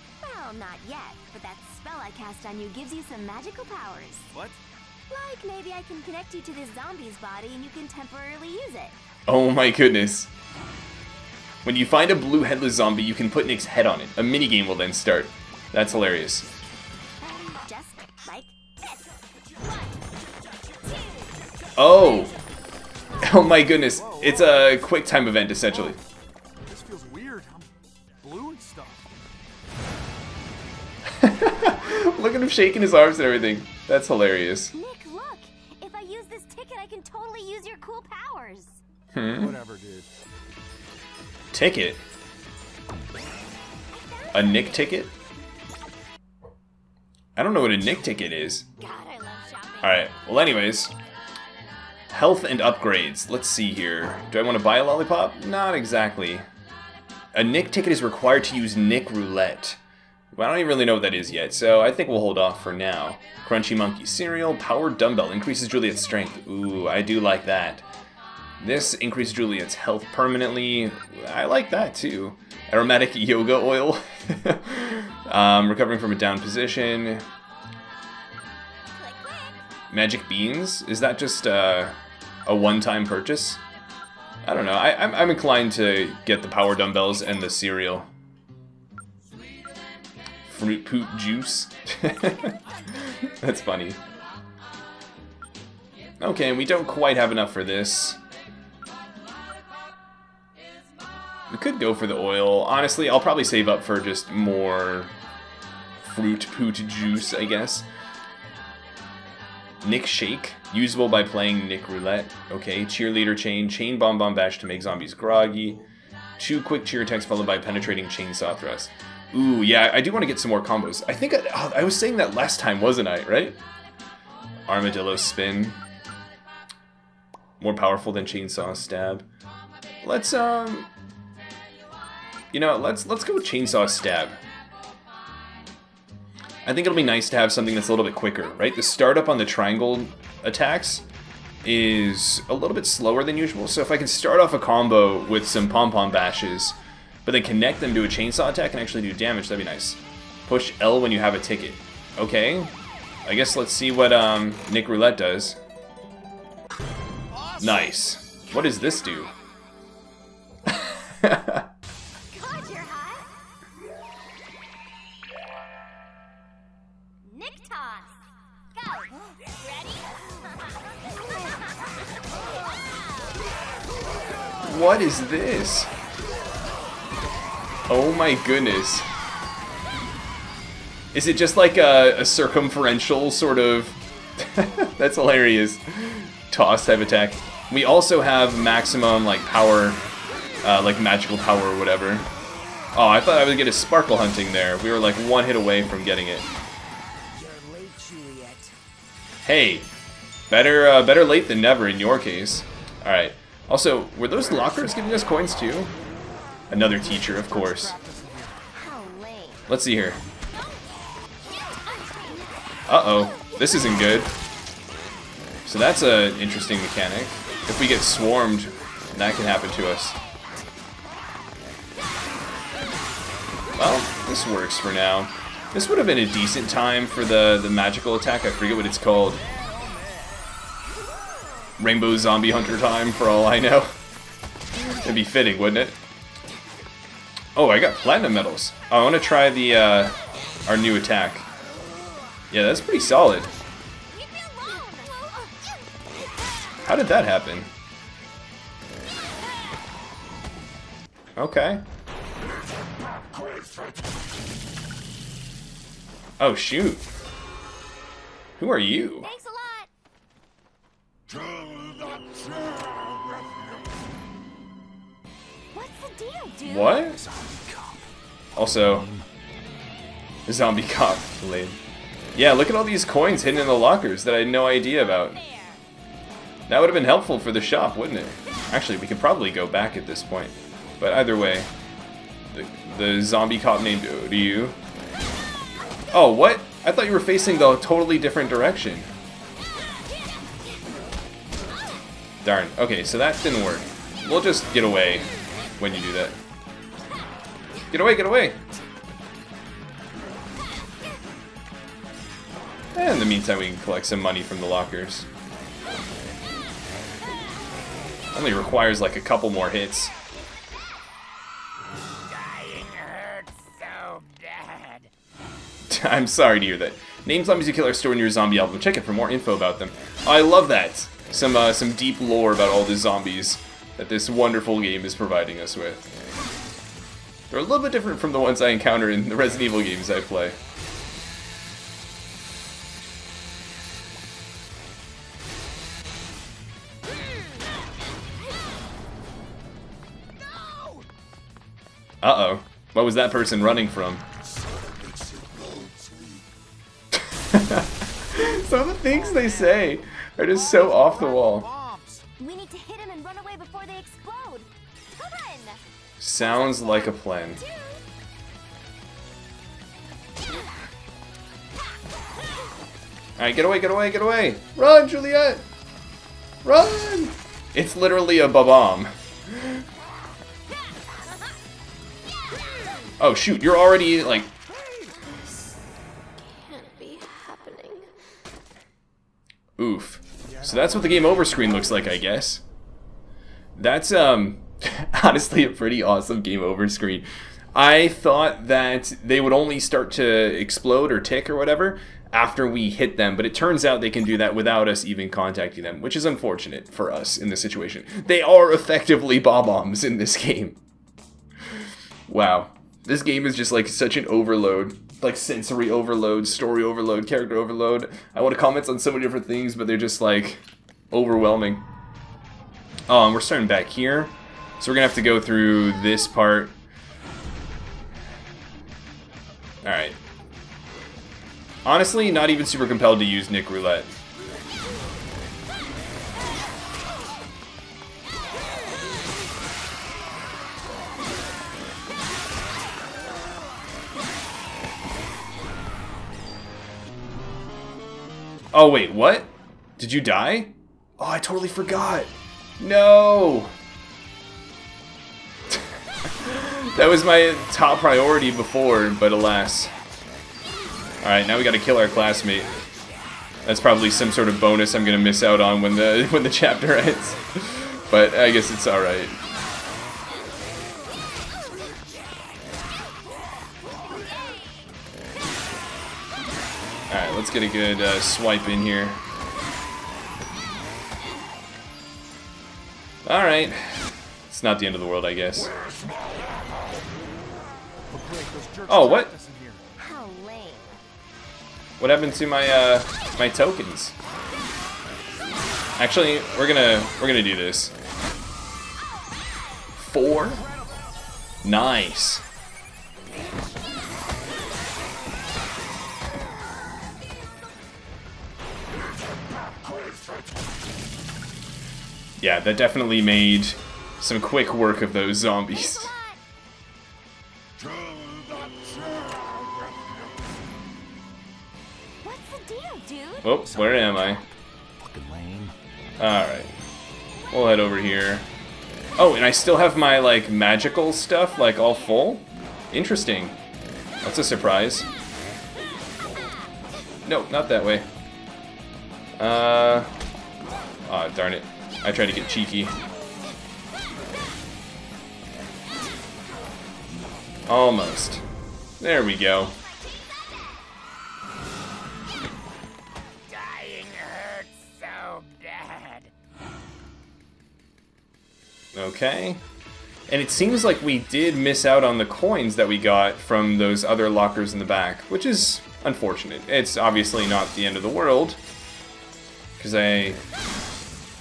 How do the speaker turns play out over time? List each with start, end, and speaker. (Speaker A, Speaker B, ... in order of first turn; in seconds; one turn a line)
Speaker A: 0.2-4.3
Speaker B: 4.3-4.6
Speaker A: 5.1-8.9
Speaker C: 9.3-10.3
Speaker C: 11.6-16.5
Speaker A: 17.2-19.6
Speaker A: 21.1-21.5
Speaker C: 21.8-22.3
Speaker C: 23.2-26.0
Speaker B: 23.9-24.9
Speaker B: 26.6-29.1
Speaker C: 31.1-34.7
Speaker A: 34.7-38.8
Speaker C: 39.1-39.6
Speaker B: 39.3-40.1
Speaker C: 41.5-42.0
Speaker A: 43.9-44.9
Speaker C: 44.3-45.1
Speaker C: 47.4-48.6
Speaker A: 48.8-50.1
Speaker C: 49.8-50.9
Speaker C: 52.1-56.4
Speaker C: 57.3-59.8
Speaker C: 60.3-67.8
Speaker C: 68.6-77.2
Speaker A: 79.0-79.6
Speaker C: 79.9-83.6
Speaker C: 84.4-88.1
Speaker C: 90.5-94.0
Speaker C: 96.2-98.2
Speaker C: 101.5-105.1
Speaker C: 106.0-107.9
Speaker C: 109.8-115.8
Speaker C: 116.4-123.6
Speaker C: 124.7-125.8
Speaker C: 127.6-129.2
Speaker C: 130.0-130.9
Speaker C: 132.5-134.4
Speaker C: 136.6-141.0
Speaker C: 141.6-152.7
Speaker C: 153.2-155.6
Speaker B: 157.3-158.0
Speaker C: 157.6-159.3
Speaker A: 158.6-159.3
Speaker C: 160.8-161.6
Speaker A: 162.3-163.3
Speaker A: 167.2-170.8
Speaker A: 172.5-173.4
Speaker C: 174.6-175.9
Speaker C: 177.9-179.1
Speaker C: 181.1-190.0
Speaker C: 190.6-192.3
Speaker C: 192.9-196.5
Speaker D: 197.4-198.7
Speaker C: 199.4-199.9
Speaker C: 200.5-205.9
Speaker C: 206.7-207.9
Speaker B: 206.8-208.7
Speaker A: 208.7-209.6
Speaker C: 209.7-210.2
Speaker A: 211.5-212.5
Speaker C: 212.9-214.3
Speaker C: 215.7-220.2
Speaker C: 223.8-229.4
Speaker B: 229.3-230.5
Speaker C: 231.8-233.9
Speaker C: 234.8-236.0
Speaker C: 237.6-240.2
Speaker C: 240.7-241.4
Speaker C: 242.5-243.5
Speaker A: 244.1-245.6
Speaker C: 246.8-247.7
Speaker C: 251.3-251.8
Speaker C: 256.4-257.0
Speaker C: 258.6-259.3
Speaker A: 259.2-259.9
Speaker A: 265.7-267.2
Speaker C: 266.6-267.2
Speaker C: 268.6-269.1
Speaker C: 270.4-271.8
Speaker C: 272.3-275.4
Speaker A: 274.9-275.8
Speaker C: 276.7-281.7
Speaker C: 282.5-284.8
Speaker C: 286.1-289.1
Speaker C: 292.4-295.3
Speaker C: 295.8-296.4
Speaker C: 297.9-298.6
Speaker C: 302.9-305.3
Speaker C: 308.3-310.1
Speaker D: 312.3-315.1
Speaker C: 315.9-326.1
Speaker C: 327.5-330.6
Speaker C: 342.2-344.2
Speaker C: 347.1-351.6
Speaker B: 349.0-352.2
Speaker A: 352.4-355.8
Speaker C: 356.2-357.6
Speaker A: 356.4-358.0
Speaker C: 363.4-365.6
Speaker C: 366.6-369.8
Speaker C: 373.2-374.5
Speaker B: 374.7-375.1
Speaker A: 376.5-378.2
Speaker C: 379.8-382.6
Speaker B: 380.4-382.1
Speaker C: 383.8-400.8
Speaker C: 402.3-411.9
Speaker C: 413.1-416.8
Speaker C: 419.8-420.2
Speaker C: 421.8-424.1
Speaker C: 438.7-443.7
Speaker C: 445.7-449.9
Speaker C: 451.2-452.7
Speaker C: 453.6-459.4
Speaker C: 467.1-469.2
Speaker C: 473.2-475.7
Speaker B: 478.1-479.8
Speaker C: 478.9-479.3
Speaker A: 480.0-481.0
Speaker C: 482.0-484.1
Speaker C: 486.0-487.9
Speaker C: 490.0-490.6
Speaker B: 490.5-491.0
Speaker C: 491.6-492.4
Speaker C: 502.4-506.1
Speaker A: 505.7-506.4
Speaker A: 512.2-513.6
Speaker C: 513.4-514.4
Speaker C: 516.2-516.7
Speaker C: 517.5-518.5
Speaker C: 519.2-523.6
Speaker C: 524.2-525.1
Speaker A: 526.4-526.7
Speaker C: 527.2-528.0
Speaker C: 529.4-530.1
Speaker C: 531.0-532.9
Speaker C: 537.7-538.4
Speaker C: 539.0-539.8
Speaker A: 539.9-540.6
Speaker D: 543.5-546.2
Speaker C: 548.9-549.6
Speaker C: 550.3-558.6
Speaker C: 559.8-560.4